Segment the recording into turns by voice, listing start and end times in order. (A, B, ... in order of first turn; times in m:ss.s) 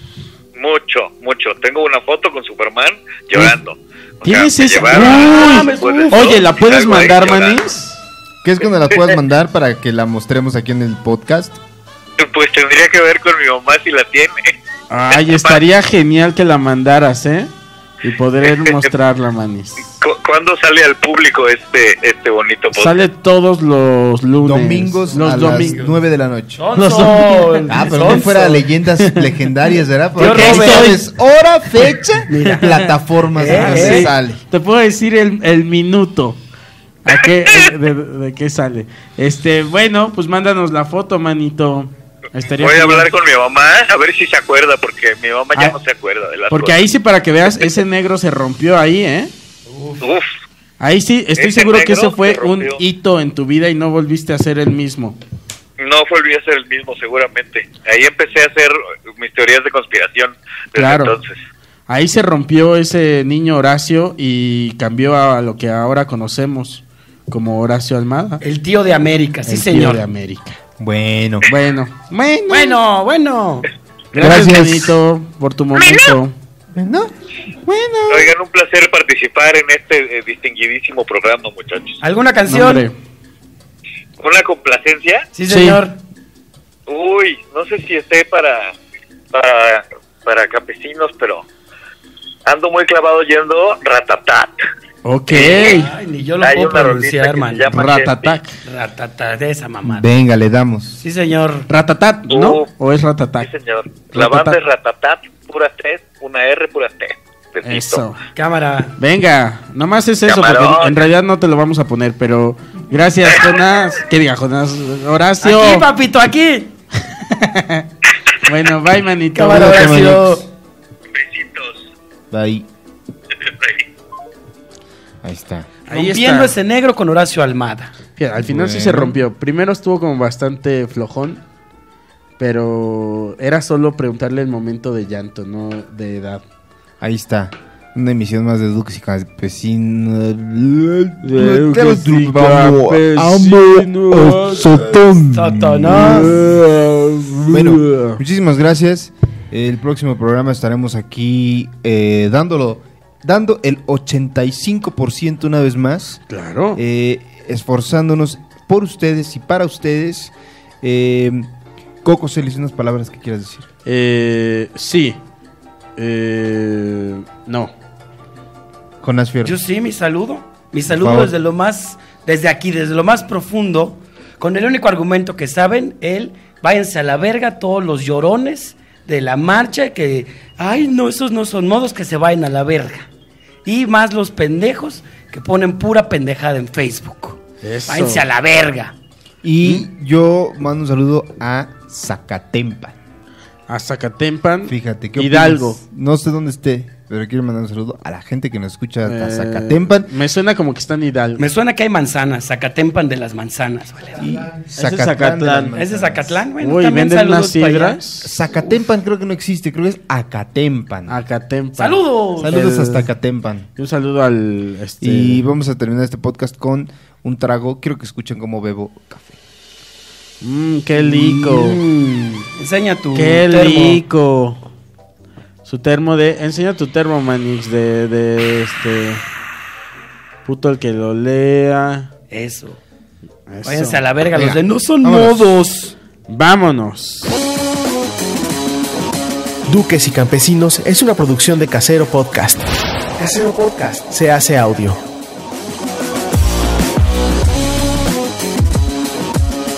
0:00.6-0:07.6 A
0:04.2-0:08.0 B
0:04.9-0:06.3 C
0:08.4-0:11.6 D
0:12.2-0:14.6 A
0:14.9-0:17.5 B
0:15.1-0:15.6 A
0:18.0-0:19.9 B
0:18.4-0:18.7 A
0:20.0-0:23.1 A
0:22.7-0:25.8 B
0:24.4-0:26.7 D
0:25.1-0:25.9 C
0:26.6-0:28.6 C
0:26.7-0:28.4 B
0:27.7-0:34.4 D
0:29.0-0:29.3 B
0:30.2-0:31.0 C
0:30.2-0:31.0 B
0:32.3-0:32.7 C
0:32.5-0:32.9 B
0:33.4-0:34.1 C
0:33.4-0:36.4 B
0:37.0-0:43.1 B
0:37.1-0:37.6 A
0:42.5-0:46.8 A
0:46.5-0:49.3 B
0:49.7-0:50.0 C
0:50.0-0:50.3 A
0:50.8-0:55.2 B
0:51.4-0:52.8 A
0:55.8-1:01.4 A
1:00.8-1:01.2 B
1:01.9-1:08.4 B
1:08.4-1:10.0 C
1:09.5-1:10.6 B
1:10.8-1:11.5 D
1:11.5-1:12.8 B
1:12.5-1:13.7 C
1:14.1-1:16.4 B
1:14.1-1:14.9 D
1:16.7-1:17.1 D
1:17.6-1:18.3 B
1:18.1-1:22.0 A
1:22.0-1:22.8 C
1:22.5-1:22.9 B
1:24.2-1:25.3 A
1:25.3-1:26.0 C
1:25.5-1:25.8 B
1:26.9-1:28.7 A
1:29.3-1:31.4 A
1:32.4-1:34.6 A
1:35.0-1:35.9 B
1:35.3-1:35.8 A
1:35.3-1:37.7 C
1:36.4-1:38.4 A
1:37.7-1:38.5 B
1:38.6-1:40.1 C
1:39.8-1:41.0 D
1:41.0-1:41.7 C
1:41.7-1:43.5 B
1:42.3-1:42.7 A
1:43.4-1:48.0 A
1:44.1-1:44.6 B
1:47.6-1:48.2 B
1:48.3-1:48.9 C
1:49.0-1:55.9 B
1:50.2-1:51.0 A
1:55.4-1:56.7 C
1:57.0-1:57.9 B
1:58.4-2:00.4 B
1:59.3-2:00.4 C
1:59.4-2:00.3 D
2:01.1-2:01.8 A
2:02.3-2:02.7 D
2:03.4-2:03.8 A
2:05.2-2:05.7 D
2:05.9-2:07.9 C
2:05.9-2:06.6 B
2:08.2-2:11.4 B
2:08.4-2:09.2 D
2:12.4-2:16.4 B
2:17.0-2:26.6 D
2:21.2-2:25.0 B
2:25.3-2:26.4 C
2:25.9-2:28.2 B
2:27.5-2:36.2 D
2:36.3-2:36.8 B
2:36.7-2:41.5 D
2:42.0-2:43.6 D
2:43.8-2:45.2 B
2:46.0-2:47.7 B
2:49.0-2:49.6 D
2:49.4-3:03.1 C
2:50.8-2:51.3 D
3:03.6-3:08.9 C
3:07.6-3:08.2 B
3:09.4-3:13.0 D
3:13.7-3:15.8 B
3:14.6-3:20.1 D
3:19.0-3:21.4 B
3:21.4-3:24.4 C
3:24.2-3:26.4 D
3:24.8-3:25.8 B
3:25.7-3:28.0 C
3:26.6-3:28.3 B
3:28.2-3:31.2 D
3:31.1-3:33.1 B
3:31.8-3:32.6 C
3:32.4-3:33.7 D
3:33.8-3:35.4 B
3:35.0-3:39.4 D
3:40.4-3:41.8 B
3:41.0-3:44.0 C
3:43.1-3:44.6 B
3:45.6-3:49.2 B
3:50.4-3:52.1 B
3:52.3-3:52.8 C
3:53.5-3:54.0 B
3:53.6-3:55.9 C
3:54.3-3:55.4 D
3:56.3-3:57.3 B
3:59.7-4:05.0 E